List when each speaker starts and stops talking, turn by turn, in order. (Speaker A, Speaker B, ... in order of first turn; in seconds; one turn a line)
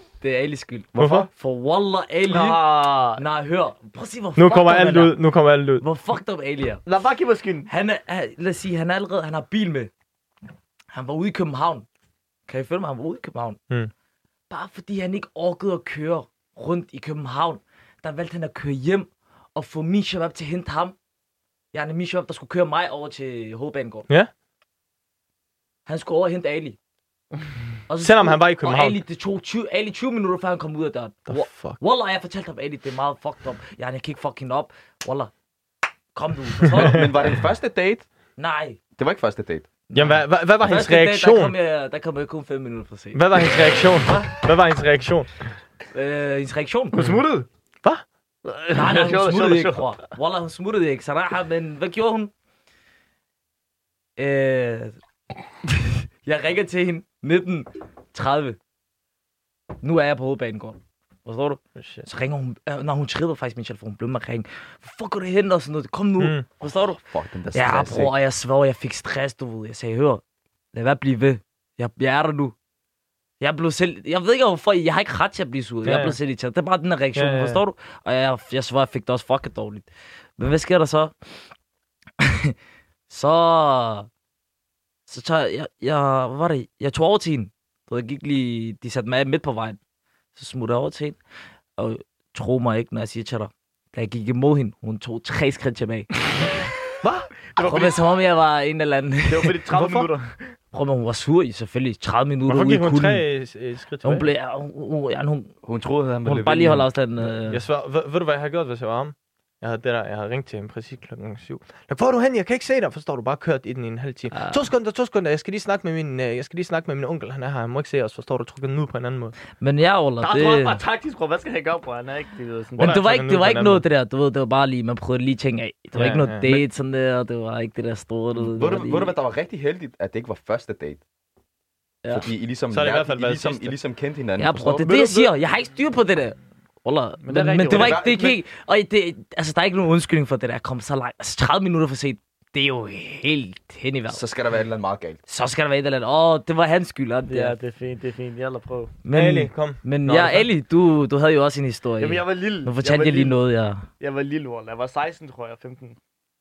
Speaker A: 0.2-2.6
Speaker B: 0.9-1.3
Speaker C: 1.0-1.3
Speaker D: 2.3-3.2
Speaker A: 3.2-5.2
Speaker C: 4.4-5.8
Speaker A: 5.8-6.8
Speaker D: 6.8-7.7
Speaker A: 7.7-9.9
Speaker A: 10.9-11.8
Speaker A: 12.5-13.6
Speaker A: 14.5-20.9
Speaker A: 21.7-24.1
Speaker A: 25.9-26.8
Speaker A: 27.9-35.3
Speaker C: 28.0-29.0
Speaker C: 31.3-31.8
Speaker A: 36.1-37.1
Speaker B: 36.8-38.1
Speaker A: 38.4-38.8
Speaker B: 39.0-39.7
Speaker A: 39.9-44.4
Speaker C: 39.9-41.5
Speaker C: 43.1-45.5
Speaker A: 45.9-47.1
Speaker D: 46.9-47.5
Speaker D: 48.5-50.0
Speaker A: 48.7-52.3
Speaker A: 54.2-55.0
Speaker A: 55.7-58.6
Speaker A: 59.8-67.0
Speaker C: 61.8-62.1
Speaker C: 66.2-66.5
Speaker B: 67.1-68.1
Speaker A: 67.5-70.2
Speaker A: 70.7-72.5
Speaker A: 73.4-81.1
Speaker C: 75.8-76.2
Speaker C: 77.1-77.6
Speaker A: 82.2-82.5
Speaker A: 83.1-84.1
Speaker A: 85.1-89.8
Speaker A: 90.3-91.2
Speaker A: 91.8-96.3
Speaker C: 97.0-97.3
Speaker D: 97.5-98.0
Speaker A: 97.6-99.6
Speaker D: 99.2-100.5
Speaker C: 99.7-100.1
Speaker A: 100.7-103.2
Speaker C: 102.5-104.3
Speaker A: 104.0-105.5
Speaker B: 105.6-106.9
Speaker A: 106.2-107.6
Speaker C: 107.5-119.3
Speaker A: 114.3-114.7
Speaker A: 119.6-120.8
Speaker D: 120.2-122.9
Speaker C: 122.8-123.8
Speaker A: 122.8-129.1
Speaker C: 125.9-126.6
Speaker B: 128.3-131.0
Speaker B: 132.1-134.9
Speaker C: 132.7-133.7
Speaker A: 134.4-144.2
Speaker D: 137.2-138.3
Speaker B: 137.7-138.3
Speaker B: 144.1-145.2
Speaker A: 145.3-147.6
Speaker D: 147.3-148.9
Speaker A: 149.0-153.8
Speaker C: 149.1-150.5
Speaker D: 152.0-153.4
Speaker D: 154.0-156.0